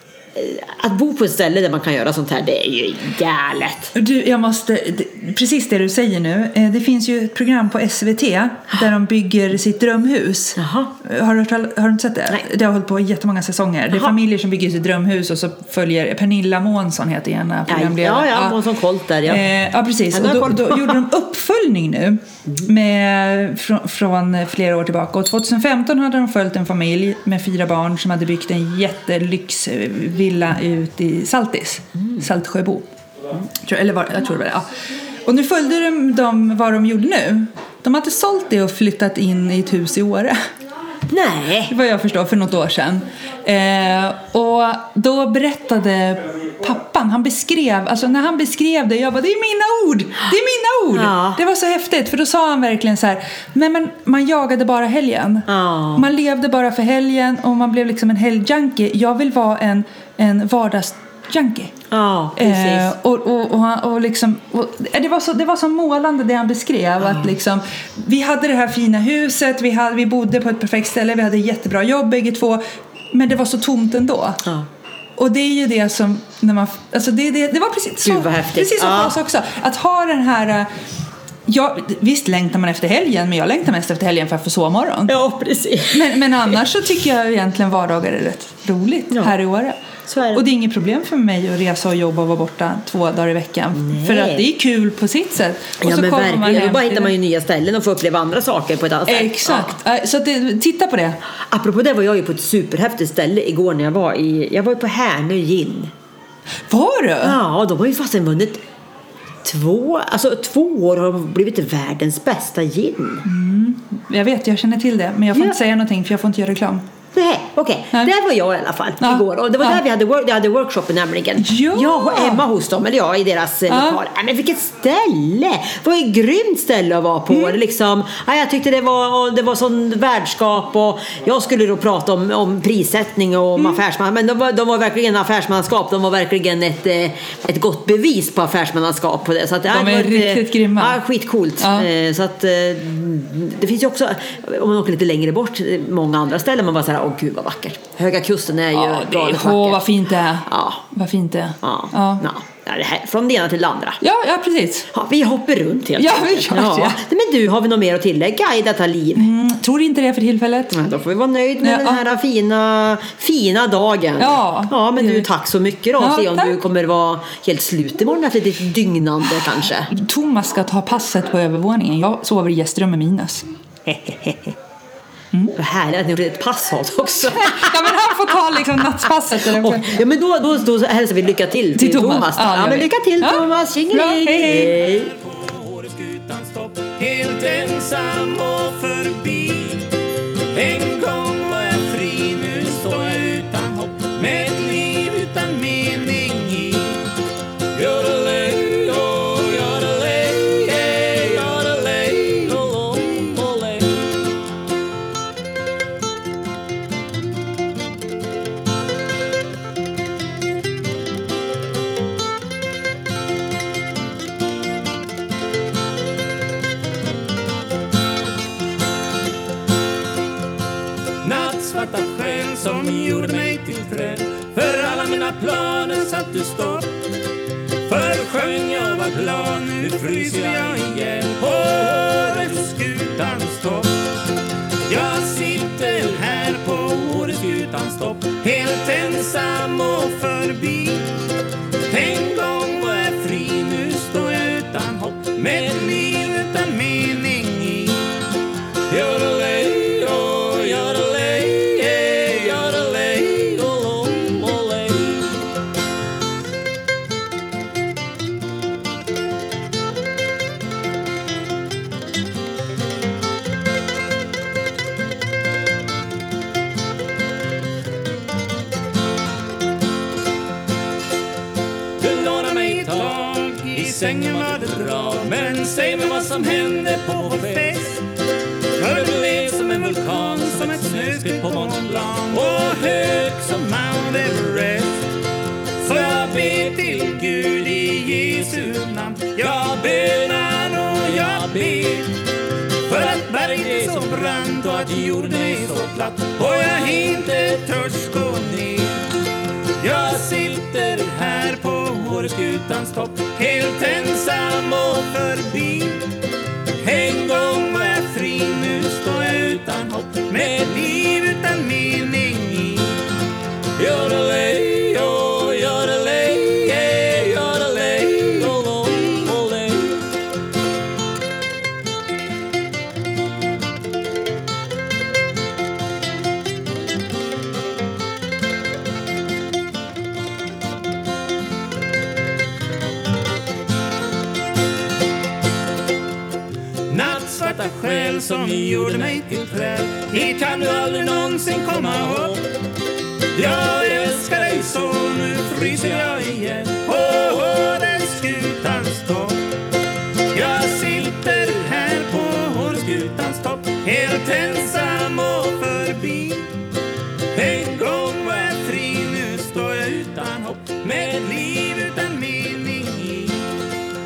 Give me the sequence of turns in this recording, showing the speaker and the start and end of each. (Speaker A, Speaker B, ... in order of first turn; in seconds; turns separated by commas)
Speaker A: 0.3-3.9, Speaker B: 3.9-18.6, Speaker A: 10.6-10.9, Speaker A: 17.7-19.4, Speaker B: 19.2-32.9, Speaker A: 20.1-21.0, Speaker B: 33.6-34.6, Speaker B: 35.2-40.4, Speaker A: 41.1-41.7, Speaker B: 41.7-61.7, Speaker A: 50.9-51.4, Speaker A: 55.5-56.0, Speaker A: 61.9-62.9, Speaker B: 62.4-74.4, Speaker B: 75.2-80.7, Speaker A: 78.0-79.2, Speaker B: 81.5-85.1, Speaker A: 85.1-86.6, Speaker B: 85.9-89.8, Speaker A: 90.0-90.4, Speaker B: 90.3-97.1, Speaker A: 93.7-94.5, Speaker A: 95.8-99.7, Speaker B: 99.1-101.2, Speaker A: 101.5-105.9, Speaker B: 106.7-107.4, Speaker A: 107.2-108.6, Speaker A: 109.4-113.2, Speaker B: 113.2-116.8, Speaker A: 117.1-149.9, Speaker B: 119.0-119.8, Speaker B: 121.4-122.4, Speaker B: 123.7-124.0, Speaker B: 127.3-127.5, Speaker B: 139.7-141.0, Speaker B: 141.6-141.9, Speaker B: 148.7-152.2, Speaker A: 150.5-150.8, Speaker A: 151.6-154.0, Speaker B: 154.0-154.9, Speaker A: 154.9-159.3, Speaker B: 155.9-157.0, Speaker B: 159.2-160.8, Speaker A: 160.7-169.9, Speaker B: 161.6-162.0, Speaker B: 164.2-165.3, Speaker B: 166.0-166.6, Speaker B: 169.9-173.4, Speaker A: 173.9-174.3, Speaker A: 175.6-178.1, Speaker B: 177.2-180.0, Speaker A: 179.3-185.1, Speaker B: 181.8-184.8, Speaker C: 184.8-189.9, Speaker C: 190.5-197.1, Speaker C: 197.7-204.2, Speaker C: 221.2-227.0, Speaker C: 227.8-234.1, Speaker C: 234.8-241.2, Speaker C: 241.8-248.2, Speaker C: 248.9-255.5, Speaker C: 272.0-278.1, Speaker C: 278.8-285.2, Speaker C: 285.8-292.2, Speaker C: 292.8-299.1, Speaker C: 299.8-306.1, Speaker C: 306.8-313.1, Speaker C: 313.8-320.1, Speaker C: 336.9-342.4, Speaker C: 343.3-349.4, Speaker C: 350.3-356.6, Speaker C: 357.3-363.6